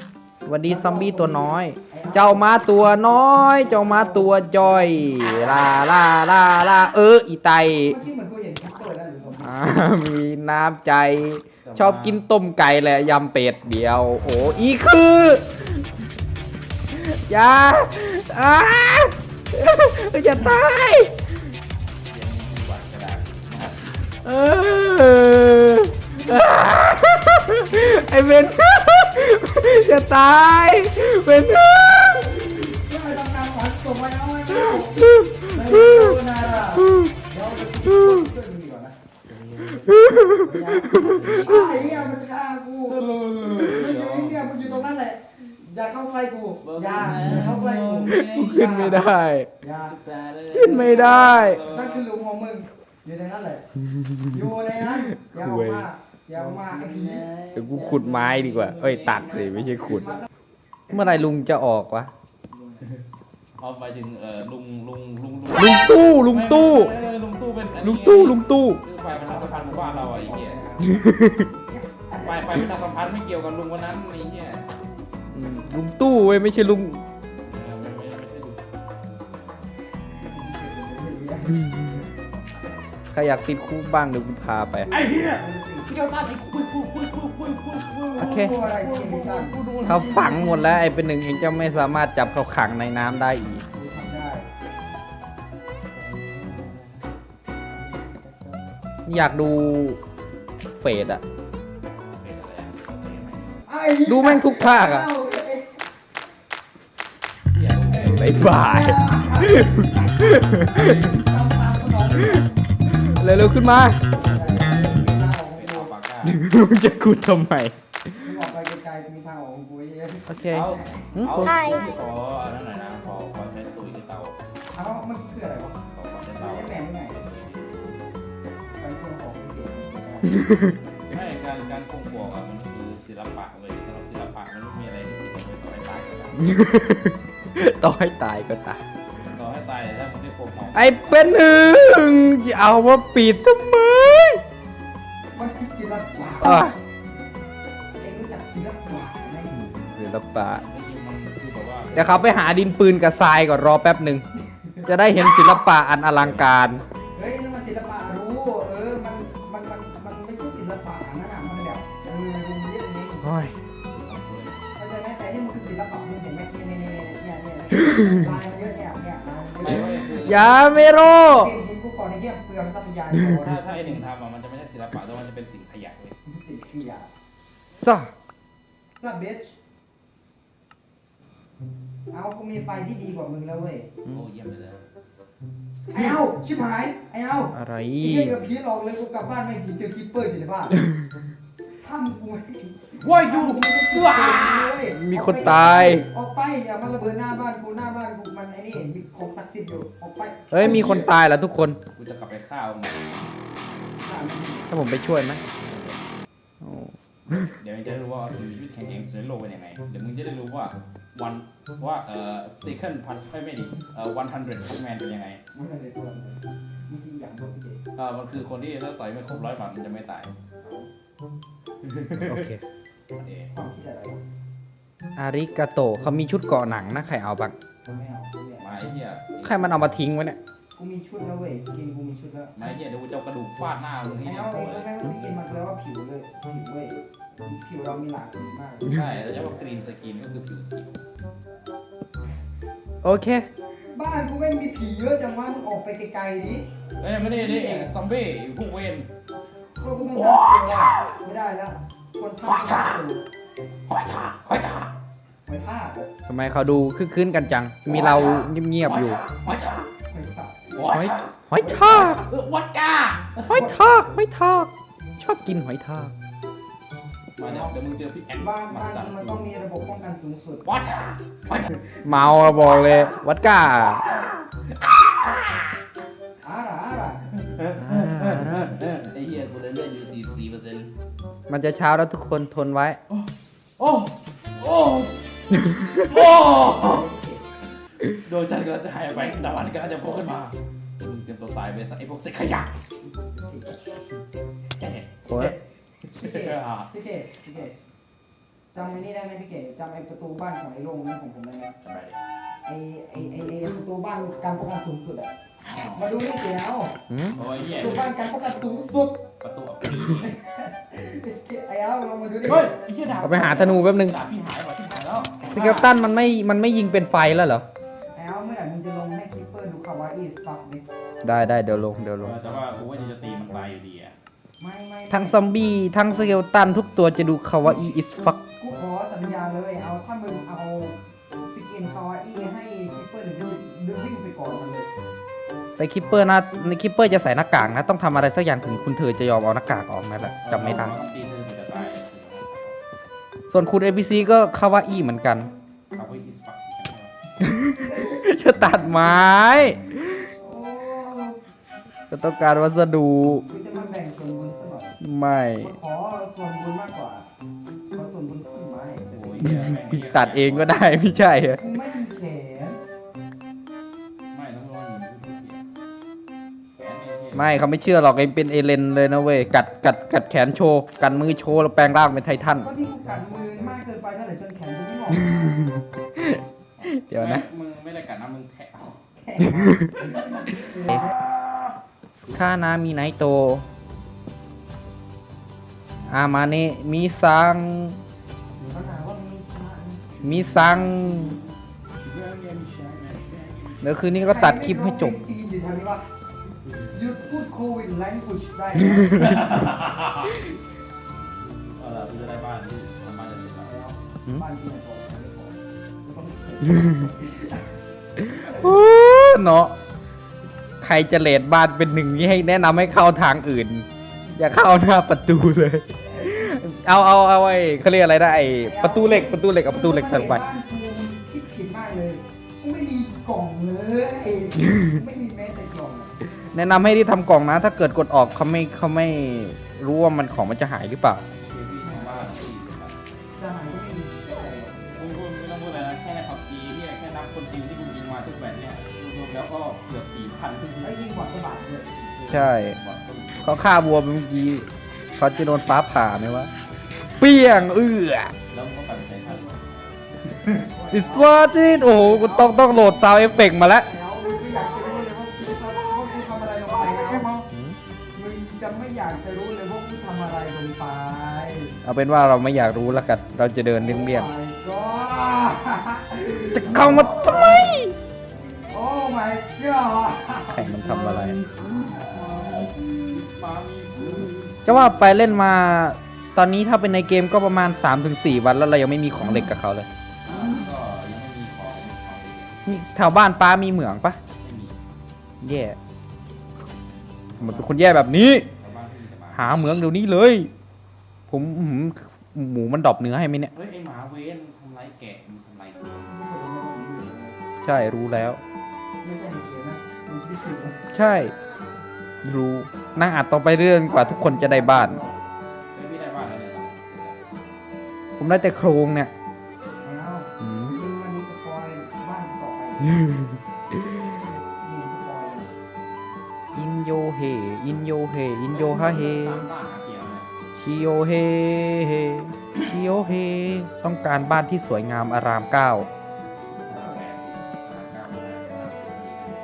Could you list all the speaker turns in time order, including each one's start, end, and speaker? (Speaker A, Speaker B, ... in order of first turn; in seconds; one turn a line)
Speaker A: 0.5-8.0
Speaker B: 0.7-2.5
Speaker B: 3.6-5.0
Speaker B: 7.8-9.6
Speaker A: 9.4-15.9
Speaker C: 11.6-12.2
Speaker A: 16.9-21.2
Speaker C: 22.1-24.1
Speaker A: 24.2-32.4
Speaker B: 32.1-39.0
Speaker A: 34.7-36.2
Speaker A: 36.8-37.1
Speaker C: 39.2-42.2
Speaker A: 39.9-41.6
Speaker B: 40.2-43.0
Speaker C: 42.8-45.0
Speaker B: 43.6-49.0
Speaker C: 46.6-49.0
Speaker A: 47.2-47.4
Speaker A: 48.1-49.5
Speaker B: 49.6-50.0
Speaker C: 49.9-52.1
Speaker A: 50.5-51.6
Speaker B: 50.6-53.6
Speaker A: 53.9-54.5
Speaker B: 54.3-57.3
Speaker A: 55.1-55.9
Speaker C: 56.3-60.2
Speaker A: 57.5-60.2
Speaker A: 60.9-62.1
Speaker B: 62.5-62.9
Speaker C: 63.6-70.6
Speaker A: 65.5-67.0
Speaker A: 67.8-68.8
Speaker B: 69.1-72.6
Speaker A: 70.8-71.5
Speaker C: 72.1-74.7
Speaker A: 75.3-77.0
Speaker C: 77.5-78.6
Speaker B: 80.1-82.0
Speaker A: 83.1-84.9
Speaker C: 84.9-91.9
Speaker B: 85.0-86.0
Speaker B: 88.2-89.6
Speaker A: 88.2-88.6
Speaker A: 89.8-93.6
Speaker B: 93.7-94.5
Speaker C: 95.8-97.1
Speaker C: 97.7-98.8
Speaker A: 99.1-100.0
Speaker A: 100.8-101.2
Speaker C: 102.2-103.6
Speaker B: 103.7-105.9
Speaker A: 104.1-105.1
Speaker C: 107.5-108.4
Speaker A: 108.0-111.2
Speaker B: 108.3-112.5
Speaker A: 112.4-114.0
Speaker B: 114.2-115.9
Speaker C: 115.5-116.4
Speaker A: 116.2-117.8
Speaker B: 118.2-120.8
Speaker A: 120.3-121.6
Speaker C: 120.5-124.4
Speaker B: 124.7-125.8
Speaker C: 125.9-128.0
Speaker B: 126.4-127.2
Speaker B: 128.8-130.8
Speaker C: 131.1-136.4
Speaker A: 136.4-138.8
Speaker C: 139.3-141.6
Speaker A: 140.7-144.4
Speaker B: 145.3-146.7
Speaker A: 146.4-146.8
Speaker B: 148.0-149.5
Speaker A: 149.5-150.6
Speaker C: 150.4-152.8
Speaker A: 151.9-154.2
Speaker B: 154.5-154.9
Speaker A: 154.9-156.8
Speaker C: 156.2-156.5
Speaker B: 157.2-163.3
Speaker A: 163.2-163.6
Speaker C: 163.9-164.6
Speaker B: 164.8-170.1
Speaker C: 169.6-170.8
Speaker A: 170.2-171.6
Speaker B: 171.1-174.0
Speaker C: 173.4-176.2
Speaker B: 176.3-177.1
Speaker A: 177.5-178.1
Speaker B: 179.0-179.5
Speaker B: 182.1-183.9
Speaker C: 184.1-184.9
Speaker C: 185.8-186.2
Speaker B: 185.9-190.8
Speaker A: 187.5-188.4
Speaker B: 191.8-201.1
Speaker C: 192.9-194.8
Speaker A: 194.9-196.1
Speaker A: 200.5-201.8
Speaker C: 200.6-201.1
Speaker C: 201.9-203.3
Speaker B: 204.0-204.7
Speaker A: 204.7-205.4
Speaker C: 205.5-206.0
Speaker A: 206.6-207.6
Speaker C: 207.4-215.4
Speaker B: 215.5-217.8
Speaker C: 218.0-220.3
Speaker B: 220.6-220.9
Speaker C: 221.8-222.4
Speaker A: 222.2-222.6
Speaker C: 223.2-223.5
Speaker B: 223.5-224.2
Speaker A: 225.2-227.5
Speaker B: 227.9-228.6
Speaker C: 228.6-230.0
Speaker A: 229.4-230.4
Speaker B: 230.8-232.5
Speaker C: 232.6-235.0
Speaker B: 234.2-239.1
Speaker C: 238.8-240.9
Speaker A: 243.0-243.5
Speaker B: 243.9-247.9
Speaker C: 247.0-249.1
Speaker B: 249.8-253.2
Speaker C: 250.1-251.2
Speaker C: 252.4-253.0
Speaker C: 253.9-254.9
Speaker B: 255.5-256.1
Speaker A: 256.3-259.2
Speaker C: 257.9-259.9
Speaker B: 260.1-260.9
Speaker C: 260.7-263.7
Speaker A: 260.9-262.2
Speaker B: 261.6-262.2
Speaker A: 263.5-266.1
Speaker B: 263.5-263.8
Speaker C: 267.4-269.5
Speaker B: 267.4-267.7
Speaker B: 268.4-270.6
Speaker C: 270.6-273.0
Speaker A: 272.1-274.1
Speaker C: 274.0-275.7
Speaker B: 276.4-277.3
Speaker C: 277.4-280.9
Speaker A: 277.8-278.7
Speaker A: 281.5-283.0
Speaker C: 283.8-285.2
Speaker A: 285.5-286.2
Speaker C: 286.0-287.1
Speaker B: 286.4-287.4
Speaker C: 288.1-292.8
Speaker B: 289.1-289.7
Speaker B: 293.0-293.8
Speaker C: 294.8-295.6
Speaker A: 295.3-295.6
Speaker C: 296.1-296.9
Speaker B: 296.2-297.7
Speaker B: 298.7-301.7
Speaker C: 301.8-302.2
Speaker B: 302.7-305.3
Speaker C: 305.6-306.1
Speaker B: 305.9-307.0
Speaker A: 307.1-307.4
Speaker C: 307.4-308.1
Speaker B: 307.7-309.2
Speaker C: 309.4-310.3
Speaker B: 310.0-312.8
Speaker C: 312.4-315.9
Speaker A: 313.2-314.2
Speaker A: 315.5-317.6
Speaker B: 318.1-320.9
Speaker A: 321.2-322.4
Speaker C: 322.2-324.1
Speaker B: 324.6-325.4
Speaker A: 325.1-328.4
Speaker B: 328.5-334.9
Speaker A: 335.8-340.9
Speaker C: 340.4-342.8
Speaker A: 343.5-345.5
Speaker C: 345.9-347.2
Speaker A: 347.4-350.3
Speaker B: 347.9-348.2
Speaker B: 350.4-351.4
Speaker A: 352.1-353.5
Speaker B: 353.4-355.0
Speaker A: 355.0-355.7
Speaker B: 355.6-357.3
Speaker B: 357.9-359.5
Speaker C: 359.1-361.2
Speaker A: 359.4-361.6
Speaker B: 361.5-362.8
Speaker C: 364.3-365.6
Speaker C: 366.8-367.6
Speaker A: 367.3-372.7
Speaker B: 372.6-375.6
Speaker A: 375.4-377.4
Speaker C: 376.8-379.0
Speaker B: 379.2-381.1
Speaker A: 379.5-379.9
Speaker C: 379.9-381.6
Speaker A: 382.3-383.6
Speaker A: 386.1-388.0
Speaker B: 388.6-390.1
Speaker A: 390.2-391.4
Speaker C: 390.5-391.4
Speaker C: 392.0-393.8
Speaker A: 393.8-395.2
Speaker B: 394.2-396.1
Speaker B: 396.9-399.4
Speaker A: 398.9-399.4
Speaker C: 399.1-400.5
Speaker C: 401.7-403.7
Speaker B: 403.6-407.8
Speaker A: 408.2-409.8
Speaker B: 408.5-408.7
Speaker A: 410.8-413.9
Speaker A: 414.4-420.4
Speaker B: 418.6-426.1
Speaker A: 426.5-431.2
Speaker C: 431.4-433.3
Speaker B: 431.8-432.4
Speaker B: 433.4-435.2
Speaker C: 435.0-441.1
Speaker B: 440.8-442.5
Speaker A: 442.3-442.8
Speaker C: 442.6-443.6
Speaker A: 443.4-446.5
Speaker A: 447.2-448.3
Speaker C: 448.5-450.6
Speaker B: 450.4-451.4
Speaker A: 450.9-453.9
Speaker B: 451.9-457.4
Speaker A: 457.4-457.8
Speaker B: 458.1-461.8
Speaker A: 461.9-464.3
Speaker B: 463.8-467.7
Speaker A: 466.6-467.9
Speaker C: 466.6-467.8
Speaker B: 468.7-472.8
Speaker A: 470.5-471.4
Speaker C: 471.4-474.6
Speaker B: 474.0-474.3
Speaker A: 474.6-479.9
Speaker C: 480.2-482.6
Speaker A: 482.7-484.2
Speaker C: 484.4-484.8
Speaker A: 485.4-485.8
Speaker C: 487.3-487.8
Speaker A: 487.4-488.5
Speaker C: 488.6-489.6
Speaker A: 489.3-490.5
Speaker A: 491.3-493.5
Speaker C: 493.5-496.1
Speaker B: 496.0-497.4
Speaker A: 497.6-498.4
Speaker B: 499.0-500.8
Speaker A: 500.9-501.3
Speaker A: 502.2-505.0
Speaker B: 503.9-505.2
Speaker C: 505.7-507.2
Speaker A: 508.2-509.1
Speaker B: 509.8-513.0
Speaker A: 510.4-510.8
Speaker A: 512.9-514.1
Speaker B: 514.6-515.5
Speaker A: 516.5-519.5
Speaker C: 518.5-520.3
Speaker A: 520.6-525.9
Speaker C: 526.7-529.4
Speaker B: 526.7-527.0